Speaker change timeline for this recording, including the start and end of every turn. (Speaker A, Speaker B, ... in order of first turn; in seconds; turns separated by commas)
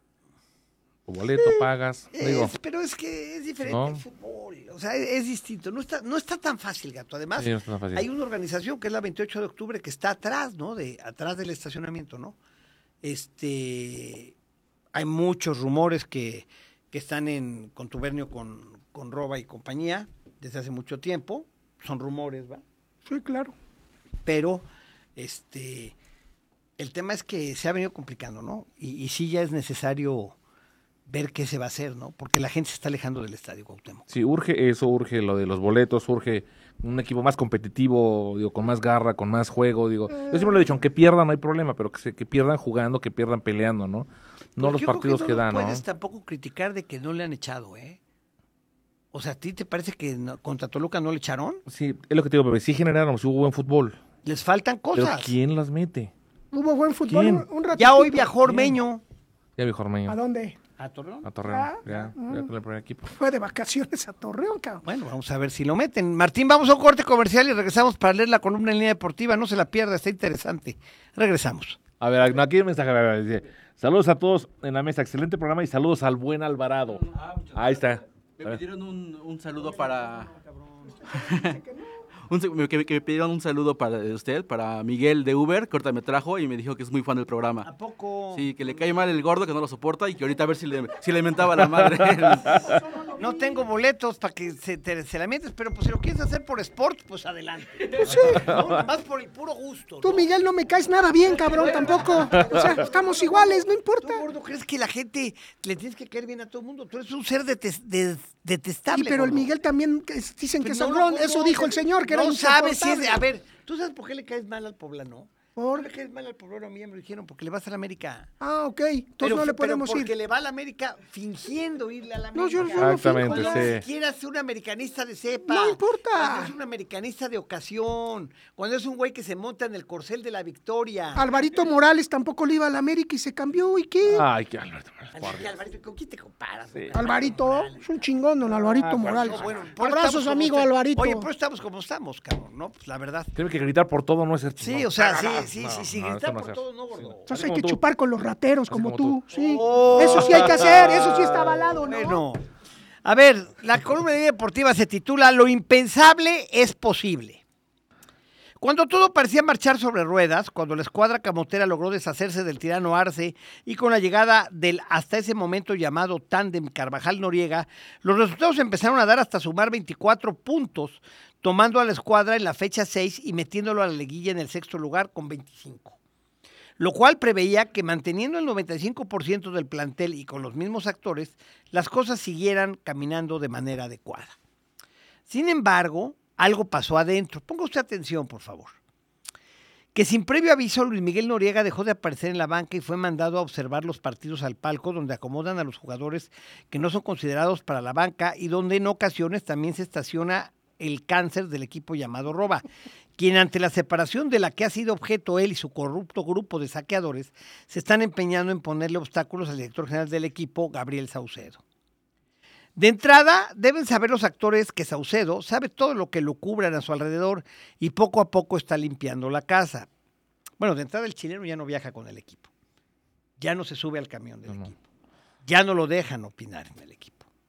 Speaker A: 1.1-2.5, Speaker B: 2.1-12.4, Speaker A: 3.7-4.0, Speaker A: 7.4-8.1, Speaker B: 13.0-14.3, Speaker B: 14.9-22.6, Speaker C: 23.1-23.6, Speaker B: 24.2-25.9, Speaker B: 26.8-30.4, Speaker B: 31.1-34.1, Speaker A: 34.1-45.8, Speaker C: 40.2-40.5, Speaker B: 44.6-48.0, Speaker B: 49.1-51.6, Speaker A: 51.7-54.0, Speaker B: 54.2-55.3, Speaker A: 55.0-56.1, Speaker C: 56.5-58.4, Speaker A: 57.1-57.5, Speaker B: 57.8-59.0, Speaker A: 59.6-60.2, Speaker C: 60.1-60.6, Speaker B: 60.8-61.3, Speaker A: 61.2-63.1, Speaker C: 61.5-62.5, Speaker C: 63.1-64.8, Speaker B: 64.8-71.8, Speaker A: 72.0-78.6, Speaker D: 77.0-80.3, Speaker B: 79.6-81.0, Speaker C: 81.1-82.0, Speaker D: 81.1-81.6, Speaker D: 82.3-87.7, Speaker B: 87.6-88.5, Speaker D: 88.3-92.7, Speaker A: 91.9-92.7, Speaker C: 92.6-93.7, Speaker B: 93.2-100.3, Speaker C: 98.0-98.5, Speaker C: 100.0-104.2, Speaker B: 101.5-109.5, Speaker A: 102.3-102.7, Speaker C: 108.9-113.2, Speaker B: 110.6-118.3, Speaker C: 115.6-115.9, Speaker C: 118.4-120.1, Speaker B: 119.2-131.3, Speaker C: 122.3-123.7, Speaker A: 122.8-123.8, Speaker C: 125.5-126.5, Speaker C: 131.2-134.2, Speaker A: 134.1-135.5, Speaker B: 135.1-137.9, Speaker C: 136.9-141.3, Speaker B: 138.5-143.3, Speaker A: 138.8-139.6, Speaker A: 143.3-147.8, Speaker B: 144.6-147.4, Speaker C: 147.3-152.2, Speaker A: 148.7-149.2, Speaker B: 149.3-152.4, Speaker A: 149.8-151.2, Speaker B: 153.1-157.4, Speaker B: 158.6-176.0, Speaker B: 176.8-184.4, Speaker B: 185.3-188.8, Speaker B: 189.9-202.7, Speaker B: 203.2-211.6, Speaker B: 212.8-219.9, Speaker B: 220.6-222.5, Speaker B: 223.4-224.8, Speaker B: 225.4-227.3